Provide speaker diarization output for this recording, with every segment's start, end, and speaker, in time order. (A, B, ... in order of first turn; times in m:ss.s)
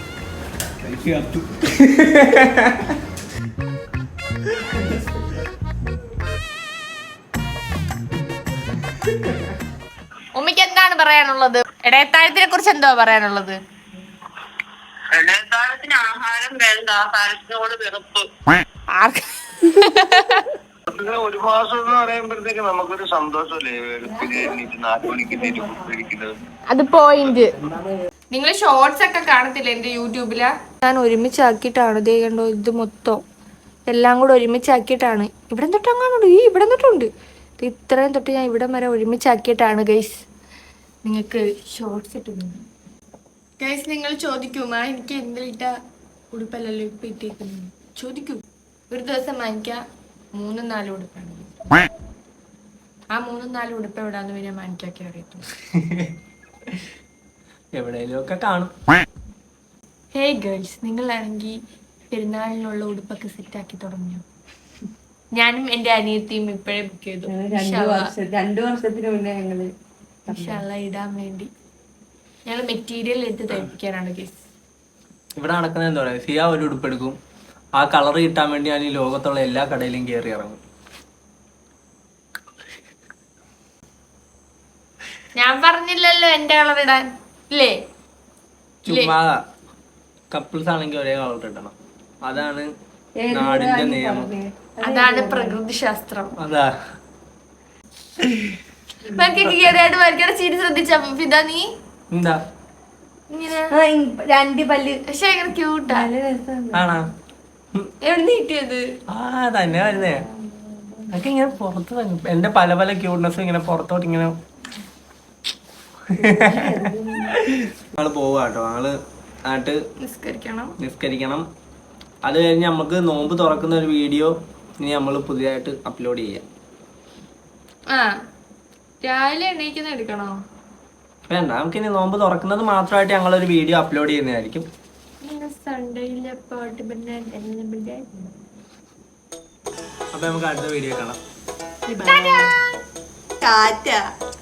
0:00.8-0:03.0 A
0:04.5-0:05.2 A
0:10.3-0:13.6 B
0:15.1-0:15.8 C
0:15.4-0:17.5 D
0:16.9-0:18.2 C
0:18.9-0:20.5 B
0:20.9-0:26.4 C
0:26.7-0:27.6 B
0:28.3-0:33.2 B
0:33.9-0:40.2 B
0:41.0-0:42.6 B
0:43.6-0:45.7 B
0:46.3-0:49.8 B
0:50.3-0:51.8 B
0:53.1-0:55.4 B
0:55.7-0:56.2 A
0:57.7-0:58.7 A
1:00.1-1:01.6 B
1:02.1-1:04.2 B
1:05.3-1:08.1 B
1:07.3-1:09.7 E
1:10.3-1:10.6 E
1:10.3-1:11.5 B
1:12.4-1:14.4 B
1:15.4-1:17.2 A
1:17.8-1:20.6 A
1:25.4-1:27.8 B
1:28.8-1:29.1 B
1:28.8-1:29.4 A
1:30.3-1:32.7 A
1:33.2-1:35.6 E
1:33.3-1:34.3 A
1:34.8-1:36.4 B
1:36.4-1:36.7 A
1:38.2-1:38.6 A
1:39.0-1:41.7 B
1:42.1-1:42.4 A
1:43.3-1:43.7 B
1:43.7-1:45.0 E
1:45.1-1:46.1 B
1:45.8-1:47.0 E
1:46.7-1:47.1 A
1:48.0-1:48.9 B
1:49.1-1:50.2 A
1:49.9-1:51.2 E
1:51.1-1:54.3 A
1:56.1-1:56.8 A
1:56.2-1:57.5 E
1:57.3-1:58.9 A
1:59.4-1:59.8 A
2:00.0-2:00.7 B
2:00.8-2:01.4 A
2:02.2-2:06.4 A
2:07.9-2:08.2 B
2:09.0-2:10.4 B
2:11.3-2:14.7 A
2:15.2-2:18.3 B
2:20.1-2:21.2 A
2:21.9-2:22.5 B
2:22.1-2:22.4 E
2:23.4-2:23.8 E
2:23.4-2:24.0 B